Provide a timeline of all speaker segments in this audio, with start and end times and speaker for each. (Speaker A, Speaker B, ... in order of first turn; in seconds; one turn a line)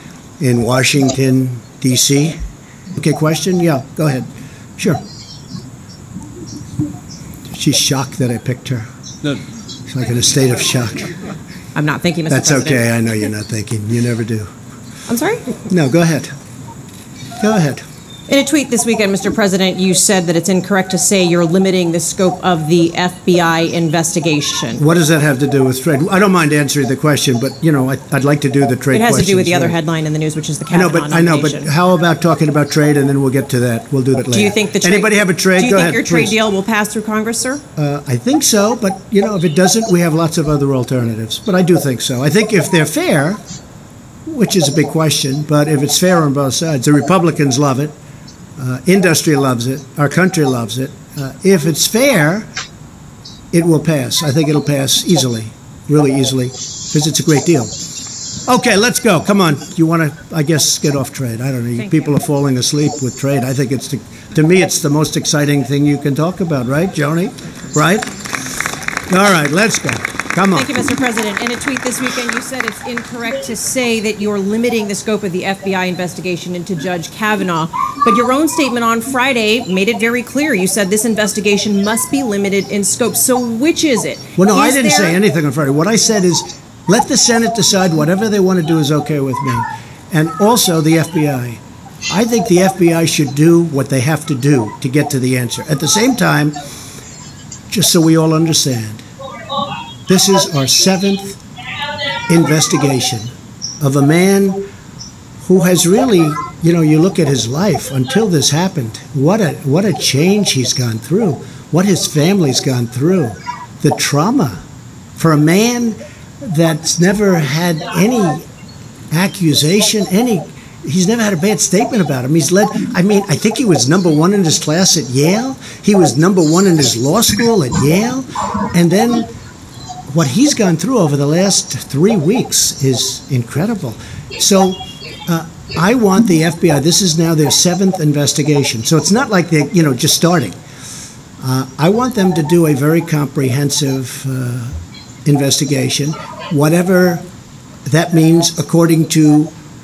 Speaker A: 0.4-2.4
Speaker A: 2.9-5.0
Speaker A: 7.5-11.2
Speaker B: 11.7-12.9
Speaker A: 12.3-14.5
Speaker B: 15.1-15.6
Speaker A: 15.6-16.3
Speaker A: 17.4-17.8
Speaker B: 18.3-24.8
Speaker A: 24.8-29.8
Speaker B: 28.9-31.7
Speaker A: 30.7-36.4
Speaker B: 34.3-37.6
Speaker A: 37.8-43.4
Speaker A: 44.2-47.9
Speaker A: 48.6-52.5
Speaker A: 53.5-57.7
Speaker A: 58.4-68.6
Speaker A: 69.1-70.7
Speaker B: 70.5-85.2
Speaker A: 84.3-96.6
Speaker A: 97.7-99.0
Speaker A: 100.1-101.4
Speaker A: 102.3-104.6
Speaker A: 105.4-114.6
Speaker A: 115.2-118.5
Speaker A: 119.1-129.3
Speaker A: 130.1-140.6
Speaker A: 141.4-147.2
Speaker A: 147.8-149.5